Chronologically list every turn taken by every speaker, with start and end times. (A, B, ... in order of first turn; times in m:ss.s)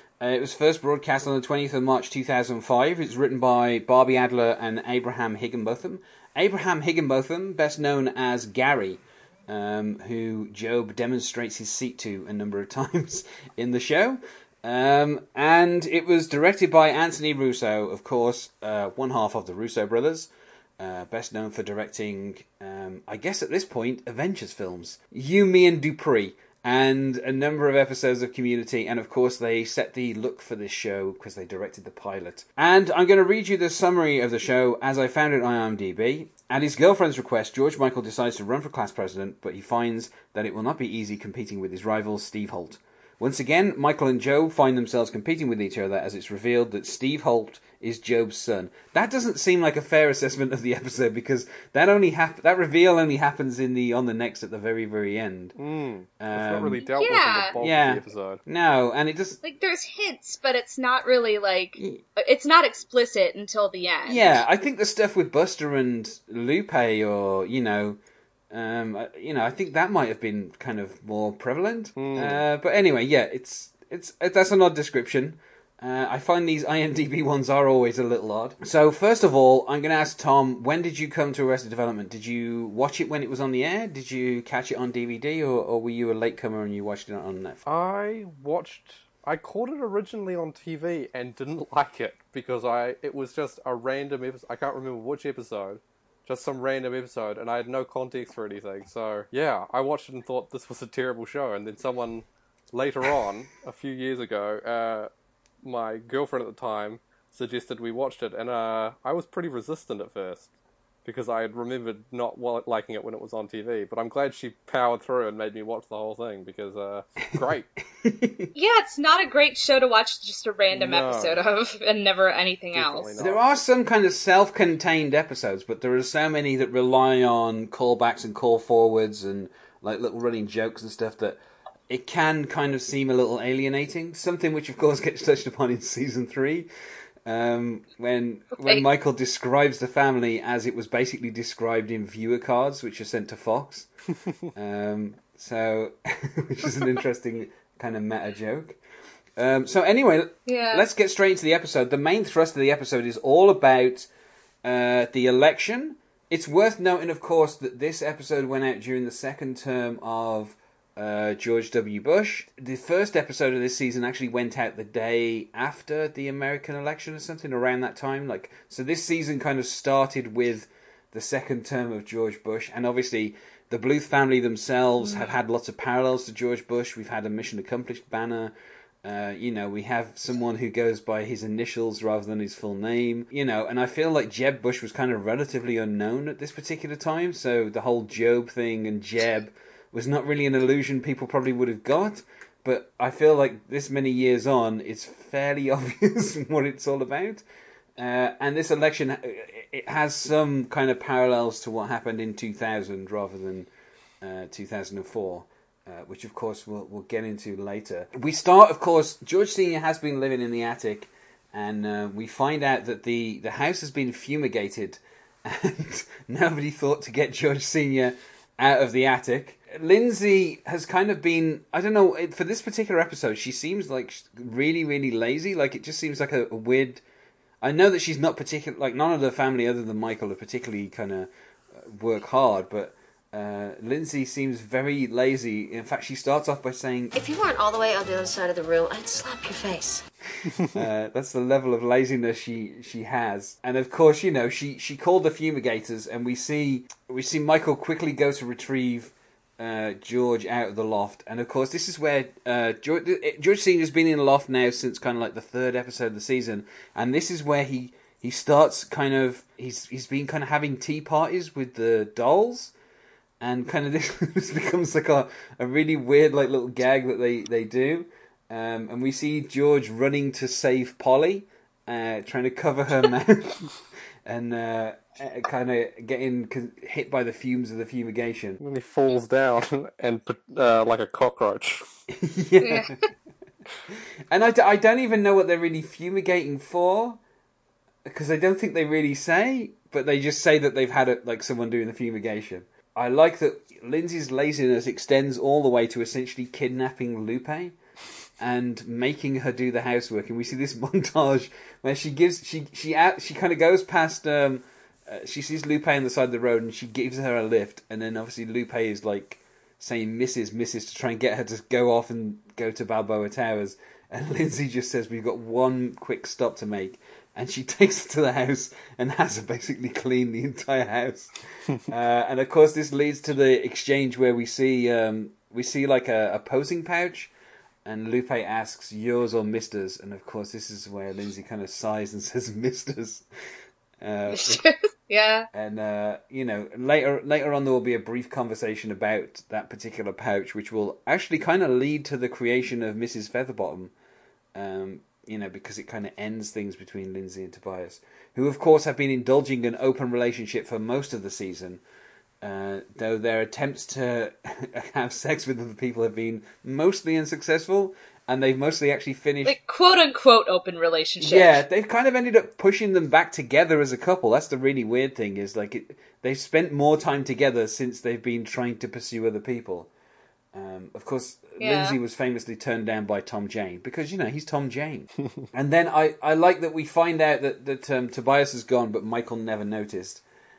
0:00.2-0:55.6 A
0:55.6-0:58.4 B
0:56.2-0:56.8 A
0:56.8-0:57.5 C
0:57.6-0:59.4 A
0:59.4-1:04.4 C
1:04.1-1:08.0 A
1:08.5-1:27.6 A
1:12.0-1:12.4 B
1:27.6-1:45.1 B
1:45.6-1:50.5 B
1:51.0-1:57.7 B
1:58.0-1:58.5 A
1:58.5-2:03.1 C
2:00.7-2:01.4 B
2:02.7-2:03.4 B
2:03.2-2:11.4 A
2:11.9-2:16.7 A
2:17.2-2:23.9 A
2:18.6-2:18.8 C
2:24.5-2:28.8 A
2:29.4-2:34.1 A
2:30.4-2:30.8 C
2:34.6-2:58.5 A
2:55.0-2:55.3 C
2:59.0-3:17.4 A
3:18.0-3:23.7 A
3:24.2-3:47.0 A
3:47.6-3:57.1 A
3:57.1-4:00.0 D
4:00.7-4:22.7 A
4:23.4-4:33.7 A
4:34.2-4:38.6 A
4:38.6-4:41.8 B
4:42.1-4:42.9 A
4:42.6-4:43.0 C
4:44.3-4:47.2 A
4:48.1-4:57.7 A
4:58.4-5:21.3 A
5:21.9-5:27.3 A
5:27.8-5:33.2 A
5:34.0-5:34.6 A
5:34.3-5:35.5 C
5:35.5-5:43.9 A
5:44.5-5:51.8 A
5:52.4-5:59.6 A
5:59.4-6:01.6 C
6:01.2-6:09.9 A
6:10.5-6:20.2 A
6:11.6-6:12.0 C